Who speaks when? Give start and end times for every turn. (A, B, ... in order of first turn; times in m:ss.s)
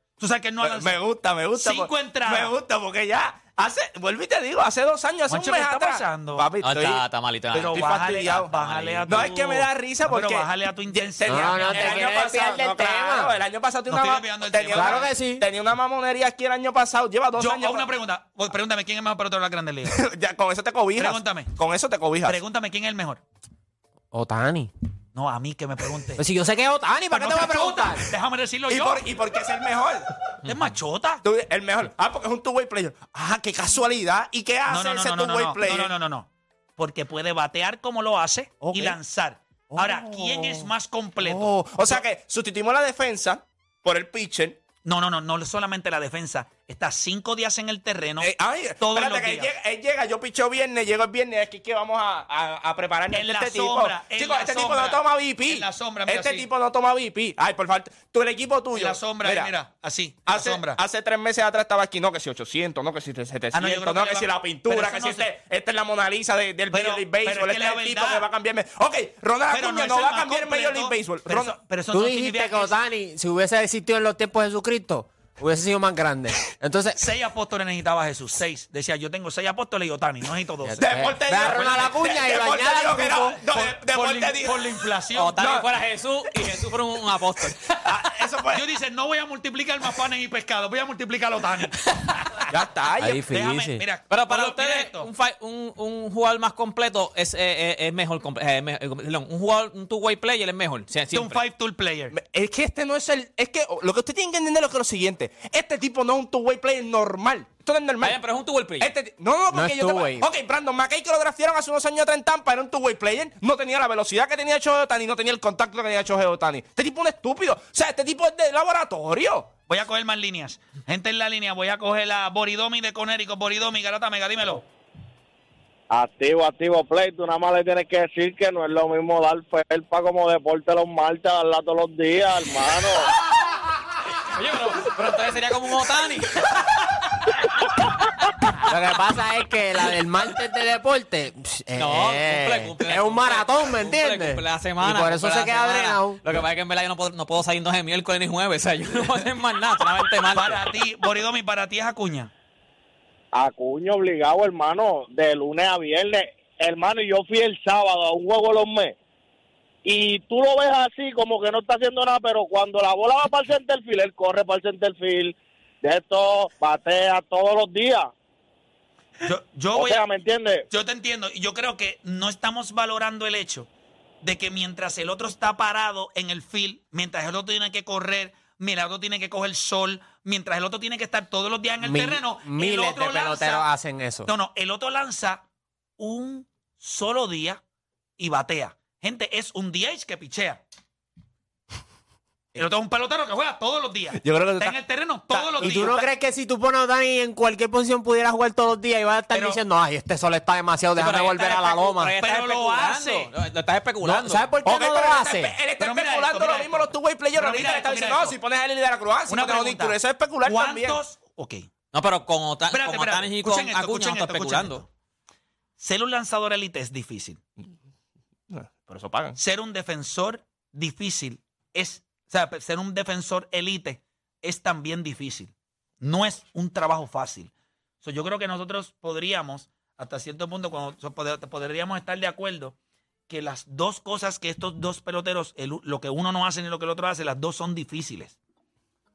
0:00.2-0:01.0 A
0:00.6-0:08.5 B
0:01.6-0:02.6 A
0:05.3-0:06.5 A
0:06.6-0:09.4 C
0:07.5-0:12.2 A
0:09.1-0:17.9 B
0:11.3-0:13.3 D
0:13.9-0:15.1 A
0:14.7-0:15.5 D
0:17.4-0:20.0 A
0:19.9-0:22.4 B
0:21.0-0:21.6 A
0:22.2-0:23.2 A
0:24.1-0:24.7 D
0:25.2-0:26.2 A
0:26.2-0:28.1 D
0:27.1-0:29.1 A
0:28.7-0:30.1 B
0:30.4-0:31.2 A
0:31.2-0:36.0 B
0:34.7-0:42.0 A
0:38.6-0:39.0 B
0:39.7-0:44.6 B
0:44.8-0:49.5 A
0:48.2-0:59.5 B
0:53.1-0:56.5 A
0:58.7-1:00.8 A
1:00.3-1:11.6 B
1:03.5-1:05.3 A
1:06.7-1:08.3 A
1:09.5-1:12.8 A
1:11.9-1:17.0 D
1:17.0-1:20.9 A
1:20.6-1:23.4 D
1:20.8-1:24.8 B
1:21.5-1:21.9 A
1:23.5-1:25.4 A
1:25.2-1:27.8 C
1:25.4-1:25.7 B
1:27.8-1:28.6 B
1:28.5-1:32.4 A
1:32.5-1:33.2 B
1:33.0-1:33.8 D
1:33.1-1:35.1 A
1:34.1-1:41.4 C
1:41.1-1:42.2 A
1:42.1-1:48.2 B
1:48.0-1:48.9 C
1:48.8-1:59.5 B
1:49.5-1:50.3 D
1:59.7-2:04.6 A
2:05.9-2:13.1 E
2:14.2-2:18.6 C
2:18.6-2:26.2 D
2:21.8-2:30.7 C
2:30.3-2:32.3 A
2:33.3-2:39.0 E
2:39.8-2:48.1 E
2:49.2-2:50.1 A
2:49.7-2:50.6 E
2:50.7-2:53.7 A
2:54.2-3:03.7 A
3:01.8-3:04.3 D
3:04.3-3:05.4 A
3:06.0-3:07.6 A
3:08.2-3:10.6 A
3:12.6-3:16.0 A
3:14.2-3:14.8 B
3:15.3-3:16.1 B
3:15.6-3:22.1 D
3:19.3-3:19.6 A
3:21.0-3:24.5 C
3:22.2-3:23.3 A
3:24.0-3:25.6 D
3:24.6-3:31.0 B
3:25.8-3:28.4 A
3:29.3-3:31.7 A
3:31.9-3:34.8 C
3:32.7-3:34.9 A
3:35.8-3:37.4 A
3:38.5-3:39.4 B
3:39.4-3:47.5 A
3:48.0-3:52.8 A
3:53.3-3:58.4 A